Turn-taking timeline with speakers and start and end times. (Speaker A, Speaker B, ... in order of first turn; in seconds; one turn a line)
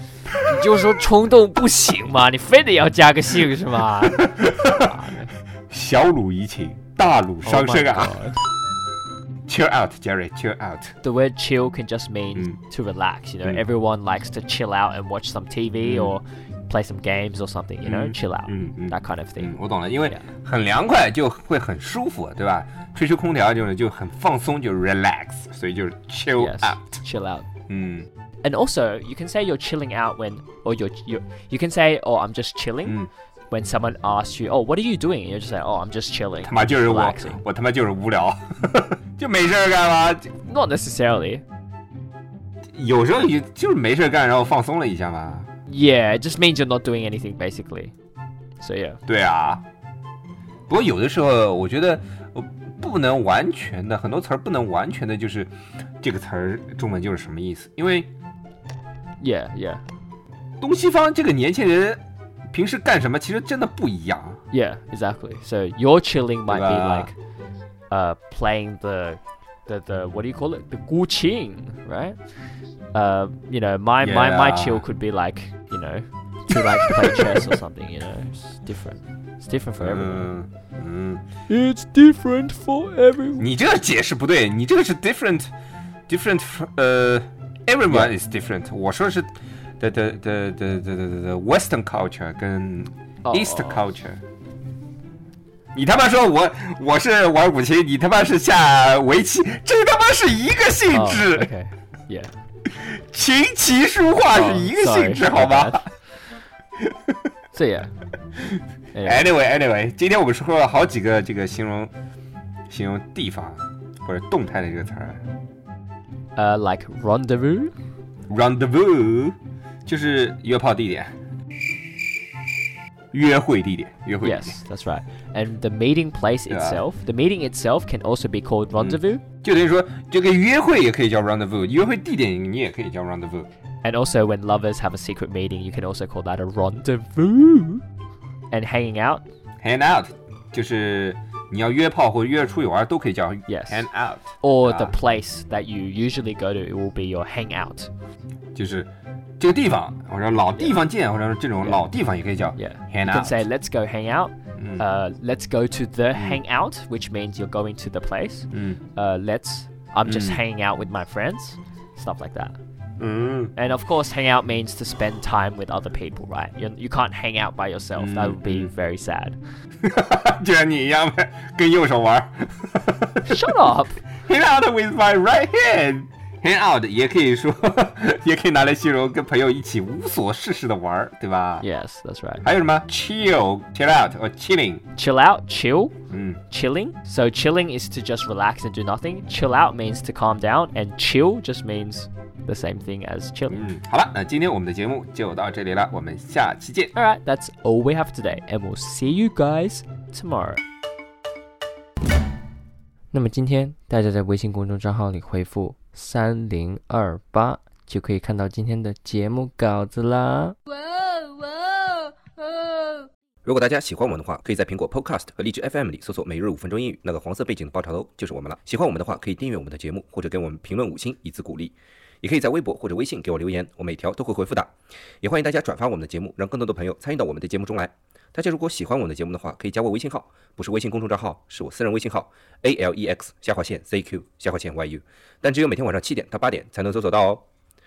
Speaker A: 0.5-5.3
Speaker B: 4.0-4.9
Speaker B: 5.7-8.2
Speaker A: 7.4-8.4
Speaker B: 9.5-10.9
Speaker A: 11.0-20.3
Speaker B: 15.8-16.2
Speaker B: 17.8-27.0
Speaker A: 26.4-27.5
Speaker B: 27.7-28.1
Speaker A: 28.4-37.4
Speaker B: 32.9-33.1
Speaker B: 36.4-40.3
Speaker A: 40.5-41.4
Speaker B: 42.7-45.5
Speaker A: 45.7-47.9
Speaker A: 48.6-49.0
Speaker B: 49.1-49.6
Speaker B: 50.7-58.1
Speaker A: 59.2-59.8
Speaker B: 60.6-62.0
Speaker B: 62.5-64.4
Speaker A: 64.5-67.2
Speaker B: 66.5-67.1
Speaker A: 67.9-72.2
Speaker A: 72.9-80.3
Speaker B: 74.0-74.8
Speaker B: 76.7-77.4
Speaker B: 79.8-81.2
Speaker A: 81.5-83.5
Speaker B: 83.4-85.5
Speaker B: 86.1-94.2
Speaker A: 93.2-93.9
Speaker B: 95.7-101.5
Speaker A: 100.9-102.3
Speaker B: 102.7-105.9
Speaker A: 104.3-105.9
Speaker A: 107.5-107.9
Speaker A: 108.9-109.3
Speaker B: 109.0-111.9
Speaker B: 112.7-115.2
Speaker A: 116.4-117.7
Speaker B: 118.3-121.1
Speaker B: 123.1-124.6
Speaker A: 124.2-129.2
Speaker B: 126.5-126.8
Speaker B: 128.8-133.5
Speaker A: 133.8-137.8
Speaker A: 138.5-139.2
Speaker B: 139.6-144.9
Speaker A: 143.5-143.9
Speaker A: 144.4-147.9
Speaker B: 148.6-153.4
Speaker A: 150.5-150.8
Speaker A: 151.6-151.9
Speaker A: 152.6-162.6
Speaker B: 154.6-154.8
Speaker B: 156.2-156.4
Speaker B: 158.5-158.8
Speaker B: 160.1-160.4
Speaker B: 163.0-163.5
Speaker A: 163.6-169.4
Speaker B: 168.0-168.7
Speaker B: 169.8-173.5
Speaker A: 173.2-174.0
Speaker B: 174.2-181.7
Speaker A: 181.6-182.4
Speaker B: 182.4-184.8
Speaker A: 185.0-185.9
Speaker B: 186.1-186.4
Speaker A: 186.5-193.6
Speaker B: 193.5-196.9
Speaker A: 196.9-200.6
Speaker C: 203.1-210.6
Speaker D: 210.8-213.0
Speaker E: 213.4-224.7
Speaker E: 225.2-237.4